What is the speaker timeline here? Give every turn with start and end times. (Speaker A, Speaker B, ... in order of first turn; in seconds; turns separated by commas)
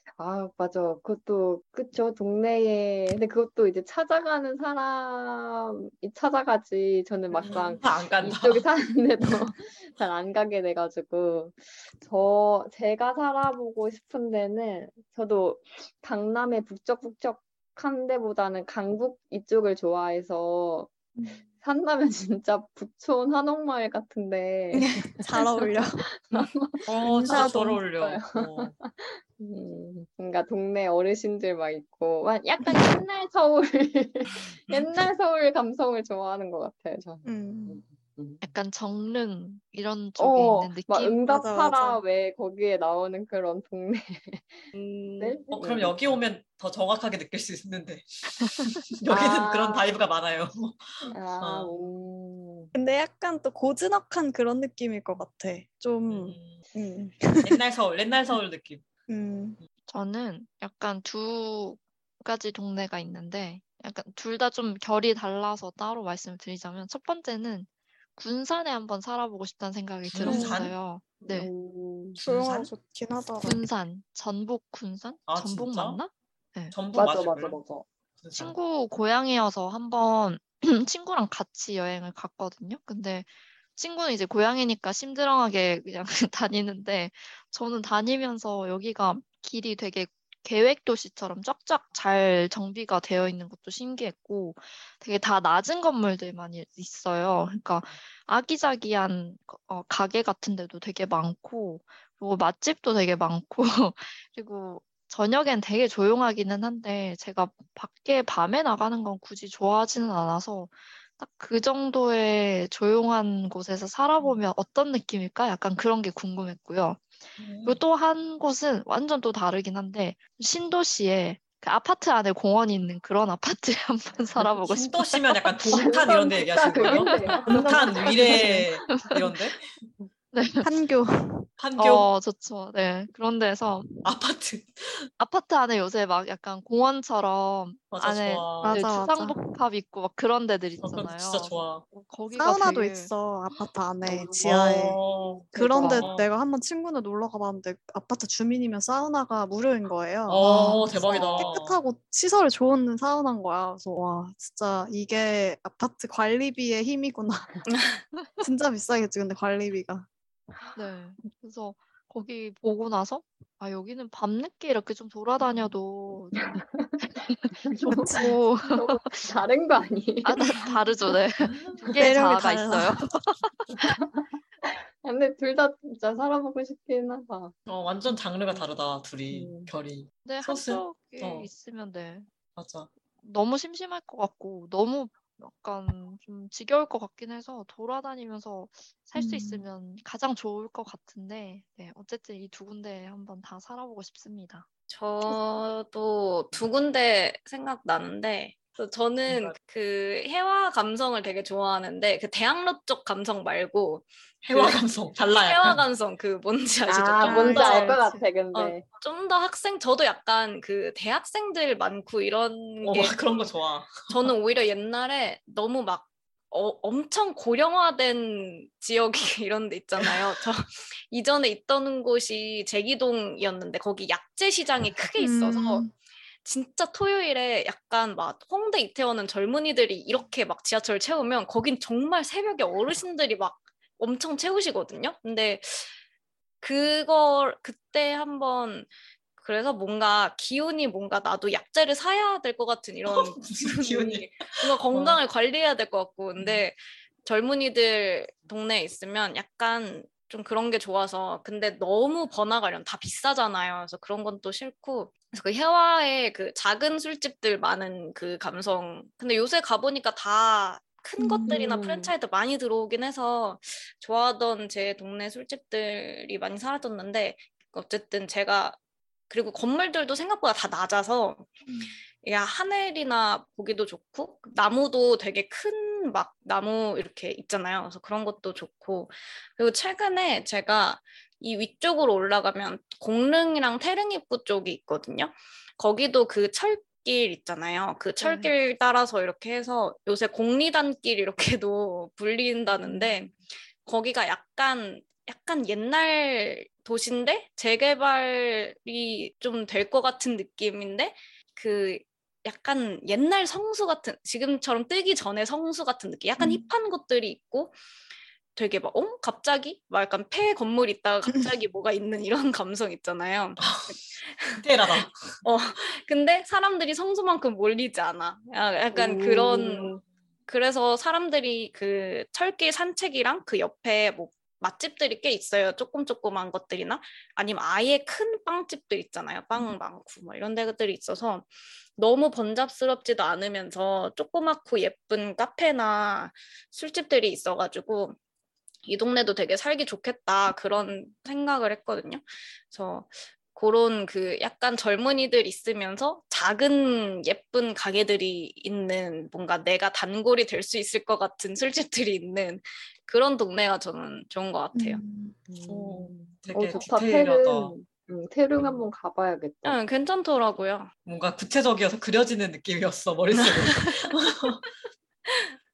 Speaker A: 0.2-38.4, Speaker B: 7.3-7.8, Speaker C: 7.4-8.7, Speaker B: 21.1-21.4, Speaker B: 24.7-26.4, Speaker C: 26.9-28.7, Speaker B: 27.0-27.8, Speaker B: 32.6-32.9, Speaker B: 37.2-37.8, Speaker D: 38.4-41.2, Speaker A: 40.2-46.1, Speaker B: 41.3-42.0, Speaker E: 44.7-45.4, Speaker C: 45.5-51.7, Speaker A: 49.1-49.9, Speaker A: 51.1-52.7, Speaker B: 52.7-57.6, Speaker C: 56.1-56.6, Speaker C: 57.4-58.8, Speaker B: 59.1-59.6, Speaker D: 59.9-71.5, Speaker C: 70.1-70.7, Speaker B: 70.2-70.6, Speaker A: 71.2-72.2, Speaker C: 72.2-72.7, Speaker B: 72.2-73.6, Speaker D: 73.4-76.8, Speaker C: 75.3-76.0, Speaker C: 76.7-77.6, Speaker A: 76.9-77.9, Speaker C: 78.2-78.5, Speaker D: 78.3-125.9, Speaker C: 117.4-117.8, Speaker C: 124.6-129.7, Speaker A: 125.7-129.1, Speaker D: 126.8-129.3, Speaker B: 127.5-128.6, Speaker D: 130.3-130.7, Speaker B: 130.6-131.5, Speaker C: 131.6-132.1, Speaker D: 131.8-133.9, Speaker C: 134.0-135.1, Speaker D: 135.2-143.1, Speaker C: 137.9-138.8, Speaker B: 138.6-139.6, Speaker C: 140.8-141.8, Speaker B: 142.3-145.0, Speaker A: 144.0-144.4, Speaker C: 144.4-146.3, Speaker B: 145.5-157.7, Speaker A: 145.5-146.0, Speaker C: 150.3-151.8, Speaker D: 150.4-150.9, Speaker B: 158.4-160.1, Speaker D: 160.8-166.6, Speaker A: 166.3-170.8, Speaker D: 167.2-169.0, Speaker B: 167.9-168.3, Speaker D: 170.2-173.5, Speaker C: 171.4-171.9, Speaker B: 171.9-173.2, Speaker A: 173.8-177.6, Speaker C: 177.7-181.5, Speaker A: 179.3-179.7, Speaker D: 180.2-182.3, Speaker C: 182.6-182.9, Speaker D: 183.2-194.7, Speaker B: 189.2-189.7, Speaker E: 194.9-208.0, Speaker C: 199.3-199.6, Speaker C: 204.4-205.8, Speaker A: 206.9-208.8, Speaker B: 207.2-208.2, Speaker E: 208.5-213.2, Speaker C: 212.8-214.3, Speaker E: 214.1-225.9, Speaker C: 220.0-220.2, Speaker B: 225.2-225.9, Speaker E: 226.4-235.9, Speaker E: 236.6-268.8, Speaker C: 243.0-245.2, Speaker C: 246.4-246.6, Speaker B: 261.2-261.6, Speaker A: 261.4-262.1, Speaker E: 269.3-271.5, Speaker B: 271.7-271.9, Speaker E: 272.2-307.7, Speaker D: 288.2-288.5, Speaker B: 306.4-306.6, Speaker E: 308.5-313.6, Speaker C: 313.6-315.4, Speaker E: 314.2-338.1, Speaker A: 318.9-320.0, Speaker E: 338.8-355.0, Speaker B: 354.7-355.4, Speaker A: 355.5-359.8, Speaker C: 355.6-357.7, Speaker C: 358.6-358.8, Speaker E: 359.6-360.9, Speaker C: 361.0-364.6, Speaker E: 363.3-364.0, Speaker E: 365.2-365.5